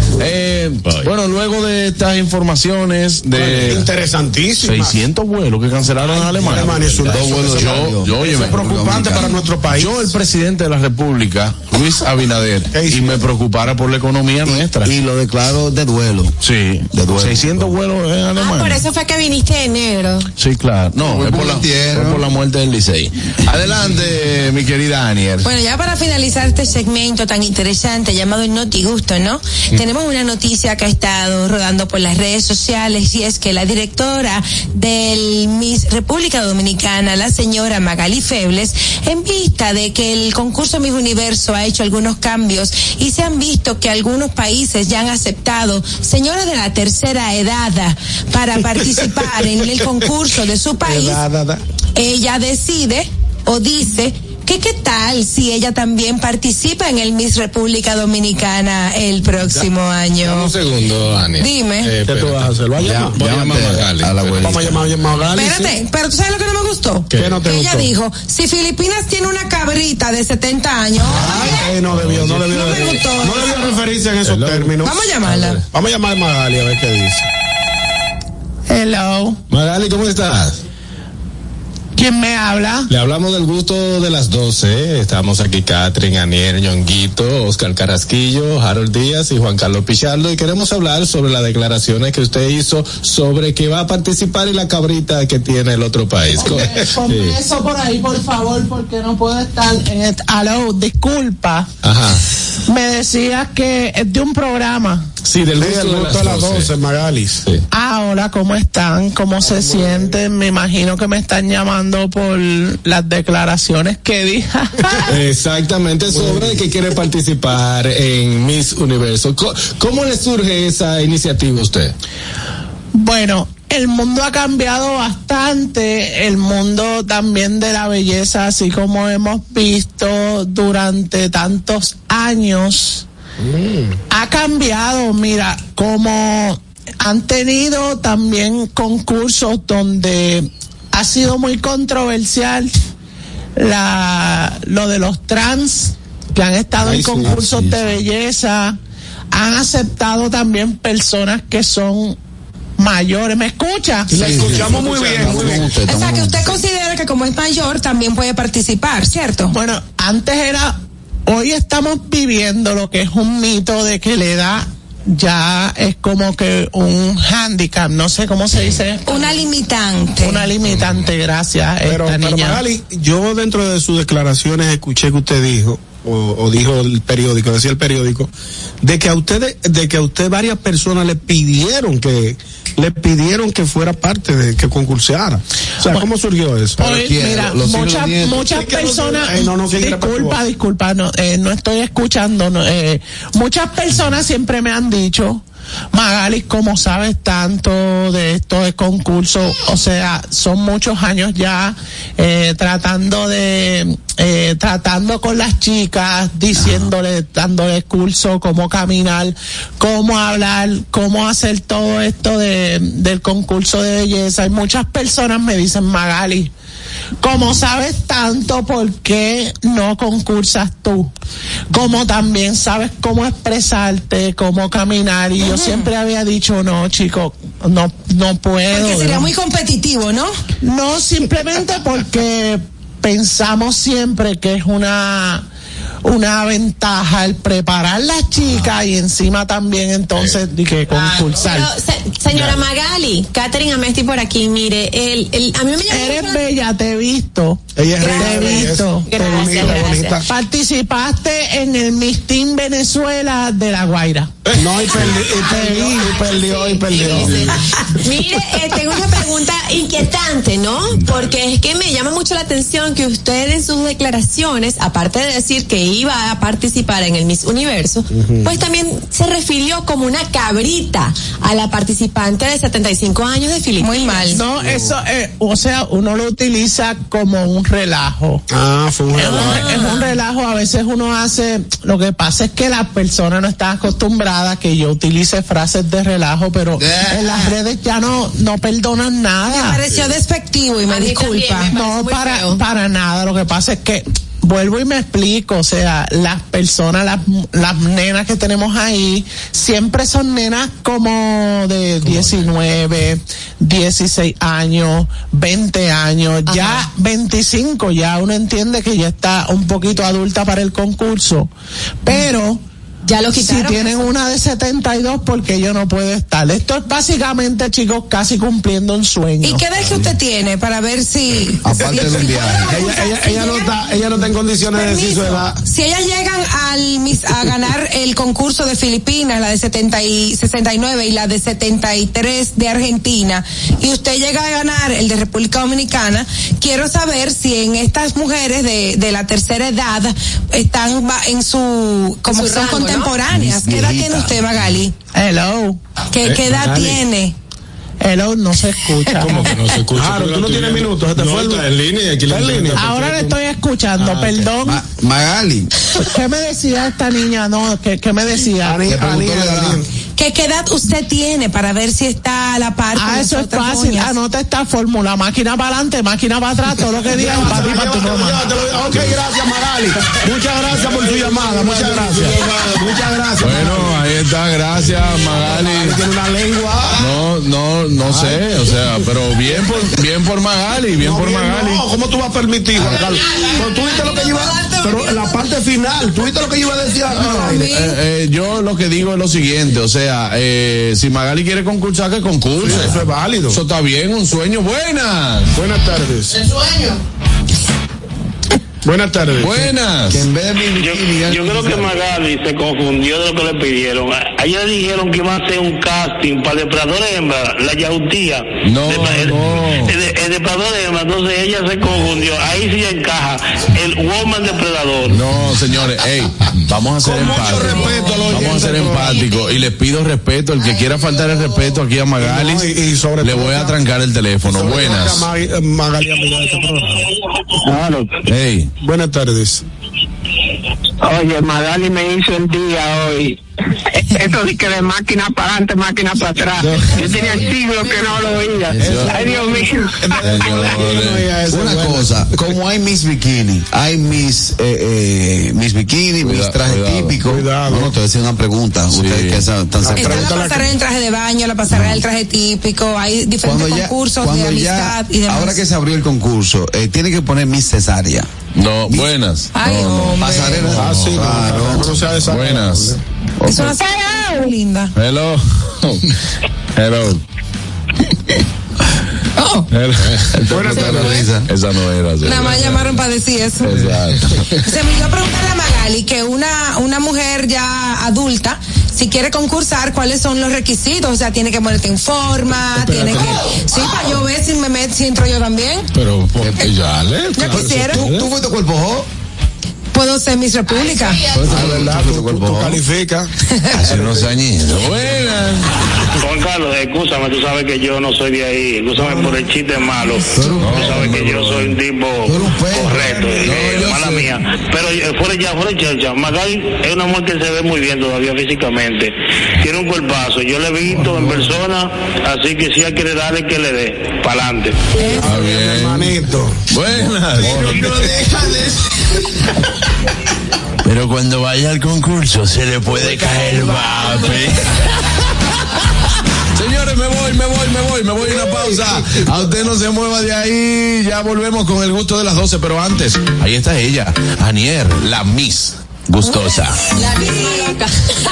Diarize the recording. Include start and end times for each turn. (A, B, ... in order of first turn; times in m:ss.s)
0:00.2-0:03.9 A
0:03.3-0:05.0 B
0:04.6-0:09.2 A
0:06.0-0:10.1 B
0:07.0-0:09.3 C
0:09.8-0:14.9 A
0:12.7-0:13.2 B
0:14.4-0:16.4 C
0:16.4-0:18.8 A
0:16.9-0:17.7 C
0:18.4-0:20.3 D
0:20.4-0:25.5 A
0:21.0-0:22.2 C
0:25.4-0:51.2 E
0:50.8-0:51.6 B
0:51.9-1:00.5 E
1:00.2-1:02.5 F
1:01.4-1:01.9 E
1:02.1-1:03.2 B
1:02.8-1:04.8 C
1:03.1-1:04.5 F
1:04.4-1:05.7 B
1:05.3-1:11.6 E
1:07.1-1:07.4 F
1:07.1-1:07.9 B
1:11.1-1:15.0 B
1:11.1-1:11.6 C
1:11.9-1:13.0 F
1:12.5-1:13.7 E
1:14.2-1:15.6 F
1:14.8-1:15.6 E
1:15.7-1:17.3 B
1:18.7-1:19.4 G
1:19.5-1:20.6 F
1:22.0-1:22.9 G
1:22.9-1:37.4 F
1:36.4-1:41.7 G
1:41.8-1:42.2 F
1:42.7-1:45.1 G
1:45.2-1:46.7 F
1:45.6-1:47.4 B
1:47.7-1:55.1 G
1:49.4-1:50.2 B
1:55.0-2:01.9 F
1:56.1-1:56.6 B
2:02.9-2:13.0 G
2:13.4-2:13.9 B
2:14.1-2:22.7 G
2:23.6-2:28.8 G
2:26.8-2:27.4 F
2:27.2-2:28.0 C
2:29.3-2:32.2 G
2:32.8-2:34.3 G
2:34.1-2:35.8 B
2:34.1-2:36.6 C
2:35.8-2:39.6 E
2:39.5-2:49.4 G
2:49.0-2:50.5 E
2:50.2-2:52.6 G
2:50.6-2:51.1 F
2:51.8-2:58.3 B
2:58.8-3:06.9 B
3:06.8-3:08.5 C
3:06.8-3:36.5 G
3:08.4-3:10.4 B
3:26.5-3:26.9 C
3:37.2-3:41.1 G
3:41.7-3:49.3 G
3:45.4-3:45.9 E
3:48.7-3:50.4 E
3:50.6-3:55.5 G
3:56.0-4:01.7 G
4:01.2-4:06.4 D
4:05.9-4:09.7 G
4:07.8-4:10.2 B
4:08.0-4:10.2 D
4:10.2-4:14.4 G
4:14.5-4:17.6 B
4:15.4-4:16.1 G
4:16.1-4:34.4 D
4:28.1-4:28.5 B
4:33.8-4:34.4 E
4:34.3-4:38.4 G
4:34.6-4:34.9 B
4:38.5-4:39.8 B
4:39.1-4:49.8 G
4:39.5-4:40.0 E
4:46.8-4:47.3 C
4:49.5-4:51.7 E
4:50.9-4:52.6 D
4:51.7-5:11.5 G
5:06.5-5:06.8 D
5:12.0-5:12.6 G
5:13.0-5:14.0 D
5:13.3-5:19.7 G
5:19.4-5:23.7 E
5:21.6-5:22.8 C
5:22.6-5:25.6 B
5:24.7-5:44.9 E
5:42.3-5:43.1 D
5:43.3-5:44.5 C
5:45.1-5:45.8 G
5:46.1-5:47.3 E
5:46.2-5:47.0 F
5:48.0-5:49.5 G
5:49.2-5:53.4 F
5:49.9-5:51.6 B
5:52.3-5:53.3 B
5:52.8-5:54.8 G
5:54.0-5:54.5 F
5:54.6-5:55.7 C
5:56.0-5:58.8 G
5:58.6-5:59.8 B
5:58.8-5:59.8 C
6:00.2-6:04.2 E
6:03.0-6:08.4 G
6:07.0-6:14.0 B
6:10.8-6:12.4 F
6:13.4-6:16.0 A
6:15.3-6:17.2 B
6:17.0-6:21.8 A
6:18.0-6:18.5 B
6:21.0-6:27.7 B
6:27.1-6:28.0 E
6:27.2-6:35.6 A
6:32.6-6:33.6 B
6:35.5-6:36.4 B
6:38.8-6:39.7 B
6:39.4-6:40.2 A
6:40.1-6:41.9 C
6:40.7-6:55.2 H
6:48.6-6:49.9 A
6:55.1-7:05.3 A
6:57.0-6:59.3 B
7:02.2-7:03.8 B
7:04.4-7:07.0 B
7:08.2-7:08.7 A
7:08.8-7:09.6 B
7:14.2-7:14.8 I
7:17.0-7:18.4 I
7:18.7-7:19.3 A
7:18.8-7:19.1 C
7:18.8-7:22.5 B
7:20.2-7:21.3 A
7:21.5-7:30.4 C
7:26.2-7:27.2 A
7:27.2-7:27.9 B
7:28.9-7:29.5 A
7:29.8-7:30.7 B
7:30.0-7:35.6 E
7:33.4-7:38.3 C
7:38.5-7:40.2 A
7:39.5-7:40.7 E
7:40.2-7:42.0 C
7:40.7-7:43.0 B
7:42.2-7:43.0 A
7:43.5-7:44.9 E
7:45.0-7:46.1 A
7:46.8-7:47.2 A
7:49.4-7:49.6 E
7:49.7-7:52.8 A
7:50.0-7:50.3 F
7:50.5-7:51.3 B
7:50.6-7:51.5 C
7:52.2-7:53.7 E
7:53.6-7:54.4 A
7:53.7-7:54.1 F
7:54.6-8:05.9 E
8:02.8-8:03.9 F
8:05.9-8:08.3 F
8:07.4-8:08.1 E
8:07.5-8:09.1 C
8:09.9-8:11.2 E
8:11.4-8:12.8 C
8:11.4-8:13.3 B
8:11.4-8:12.6 A
8:13.7-8:15.7 A
8:13.8-8:14.3 B
8:16.2-8:34.8 H
8:19.0-8:19.4 B
8:20.3-8:21.1 C
8:20.6-8:21.8 A
8:22.2-8:23.5 C
8:23.4-8:24.4 A
8:35.1-8:36.6 B
8:35.2-8:36.2 A
8:36.7-8:38.6 A
8:37.4-8:38.1 B
8:40.8-8:44.6 A
8:43.0-8:44.3 B
8:46.5-8:56.9 A
8:56.9-8:58.0 D
8:57.2-8:57.6 E